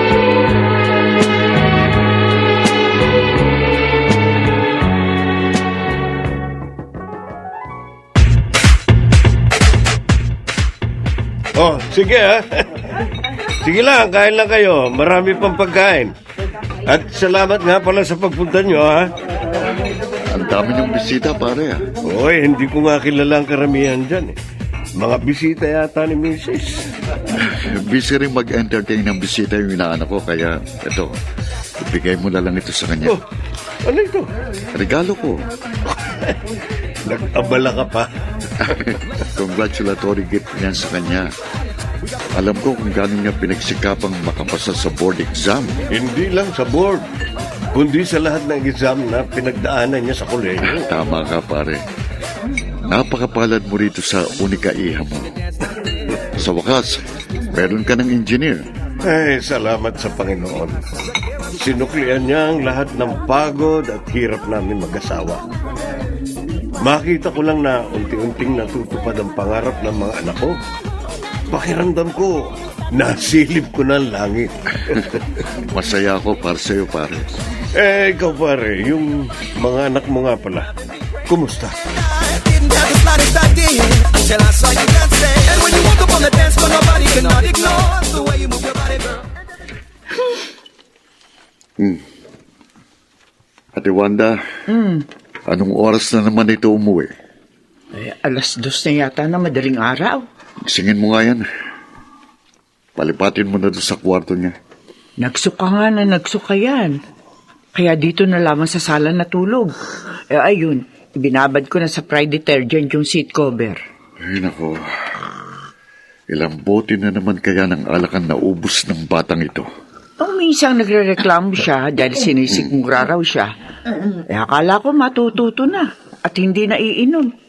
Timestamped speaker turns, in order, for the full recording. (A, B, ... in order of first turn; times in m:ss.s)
0:11.6-0:12.6 A
0:13.6-0:16.1 A
0:16.9-0:19.1 A
0:20.3-0:21.8 B
0:22.1-0:24.4 A
0:25.0-0:26.7 A
0:27.4-0:31.1 B
0:31.8-0:33.2 B
0:33.9-0:34.2 A
0:34.7-0:35.4 B
0:37.1-0:38.1 A
0:38.6-0:41.3 B
0:42.3-0:45.8 B
0:46.0-0:47.0 A
0:47.7-0:50.8 A
0:50.6-0:51.8 B
0:52.8-0:55.3 B
0:56.4-0:57.0 B
0:57.5-0:58.6 B
0:59.1-1:00.8 A
1:01.6-1:05.4 A
1:06.8-1:10.6 A
1:11.5-1:14.6 A
1:15.6-1:17.2 B
1:17.8-1:20.6 A
1:21.3-1:21.8 A
1:26.1-1:26.5 A
1:33.7-1:34.4 B
1:34.7-1:35.0 C
1:35.5-1:37.1 B
1:37.9-1:40.2 C
1:40.6-1:41.4 B
1:43.0-1:44.5 B
1:45.2-1:47.0 C
1:47.7-1:49.8 C
1:50.3-1:53.8 C
1:54.2-1:54.8 B
1:56.3-1:59.7 B
2:00.2-2:03.5 C
2:02.5-2:02.8 B
2:04.3-2:07.3 C